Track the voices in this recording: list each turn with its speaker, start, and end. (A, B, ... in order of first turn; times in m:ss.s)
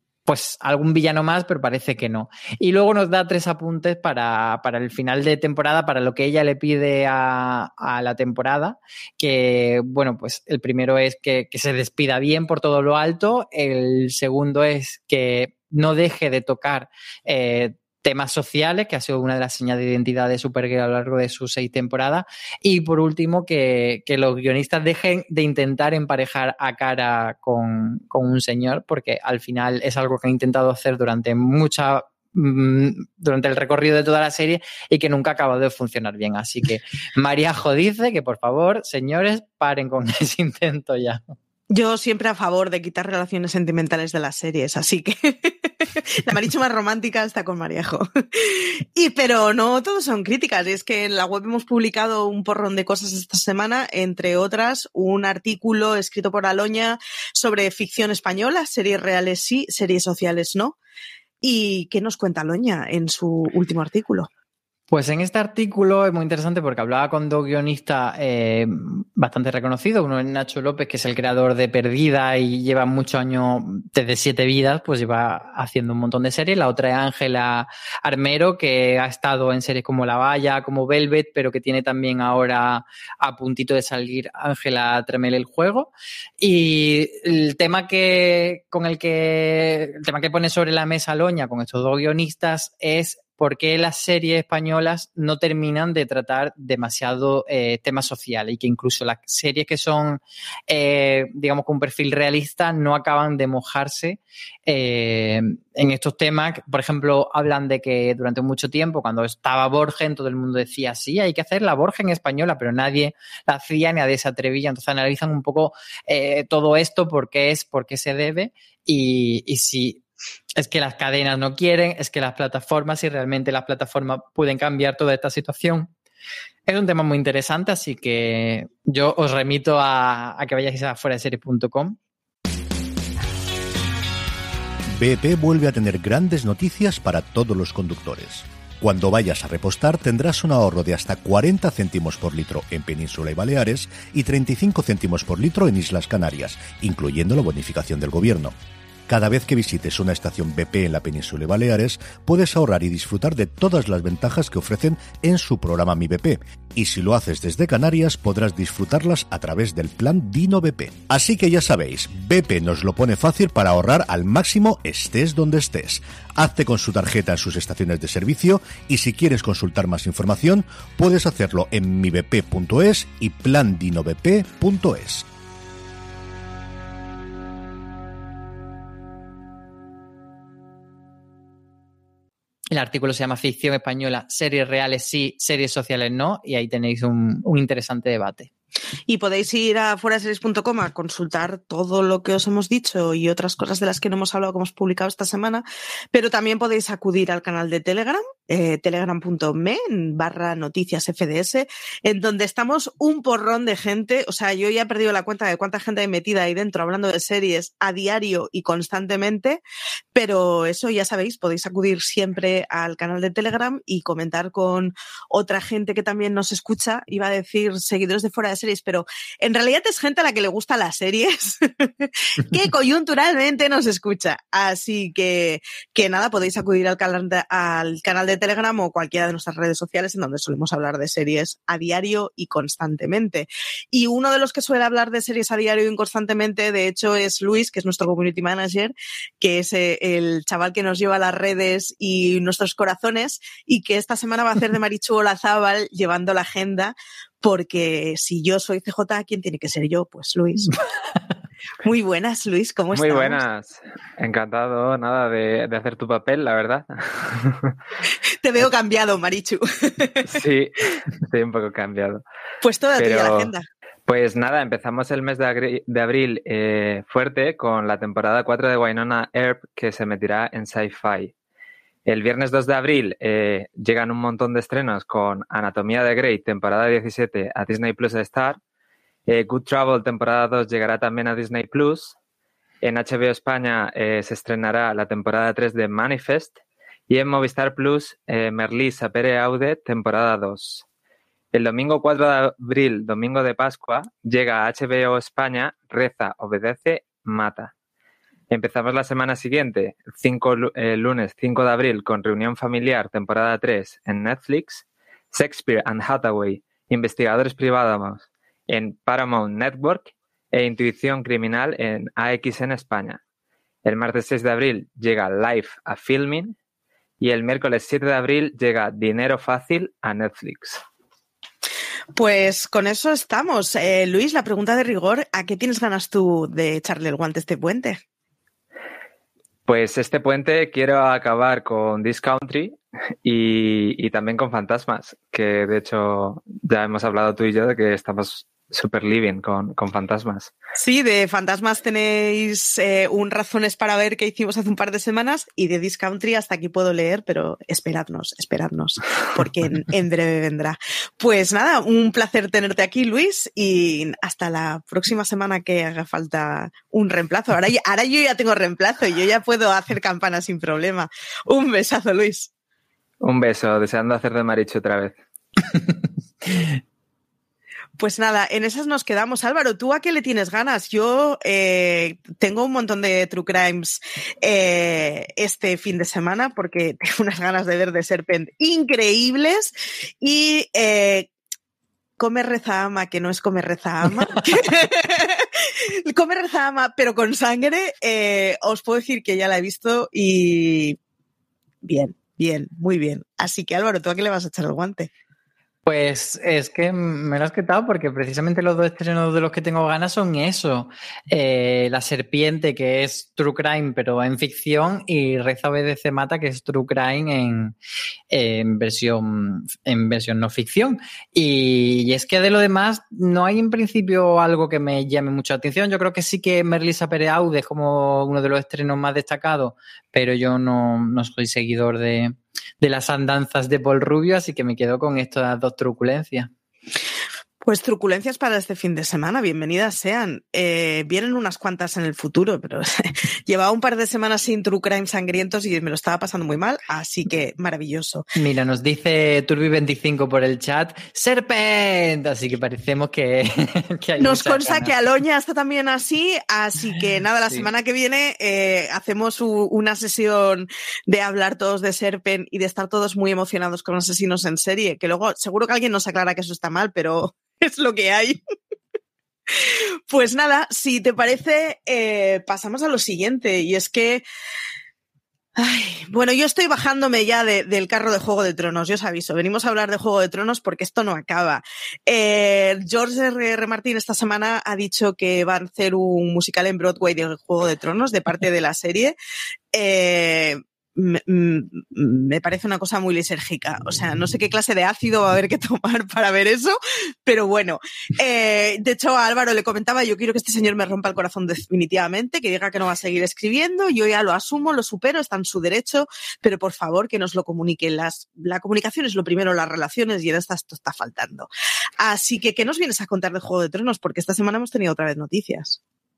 0:00.3-0:41.4 A
0:41.7-1:00.8 B
1:01.4-1:04.3 B
1:04.9-2:00.0 A
2:00.6-2:05.9 A
2:06.7-2:12.0 A
2:14.9-2:28.5 C
2:29.1-2:55.3 C
3:02.7-3:08.5 A
3:09.1-3:29.6 B
3:30.1-4:10.8 B
4:11.8-4:13.4 B
4:12.9-4:17.7 D
4:18.4-4:20.3 B
4:20.3-4:20.7 D
4:21.2-4:22.2 D
4:22.6-4:23.6 B
4:23.0-4:23.5 D
4:24.1-4:31.3 D
4:32.1-4:38.6 D
4:39.3-4:42.1 D
4:42.8-4:50.8 D
4:51.5-4:57.7 D
4:58.5-5:13.2 D
5:13.8-5:16.6 D
5:17.2-5:20.8 D
5:22.1-5:28.0 B
5:29.6-5:40.5 D
5:40.8-6:02.5 B
6:03.2-6:05.2 D
6:08.0-6:21.3 B
6:22.2-6:31.0 B
6:31.8-6:35.1 B
6:35.8-6:47.8 A
6:48.3-7:06.5 A
7:07.6-7:18.3 B
7:18.4-7:24.9 A
7:24.2-7:38.4 B
7:39.6-7:44.2 B
7:45.6-7:59.1 B
7:59.7-8:21.5 B
8:22.0-8:25.8 B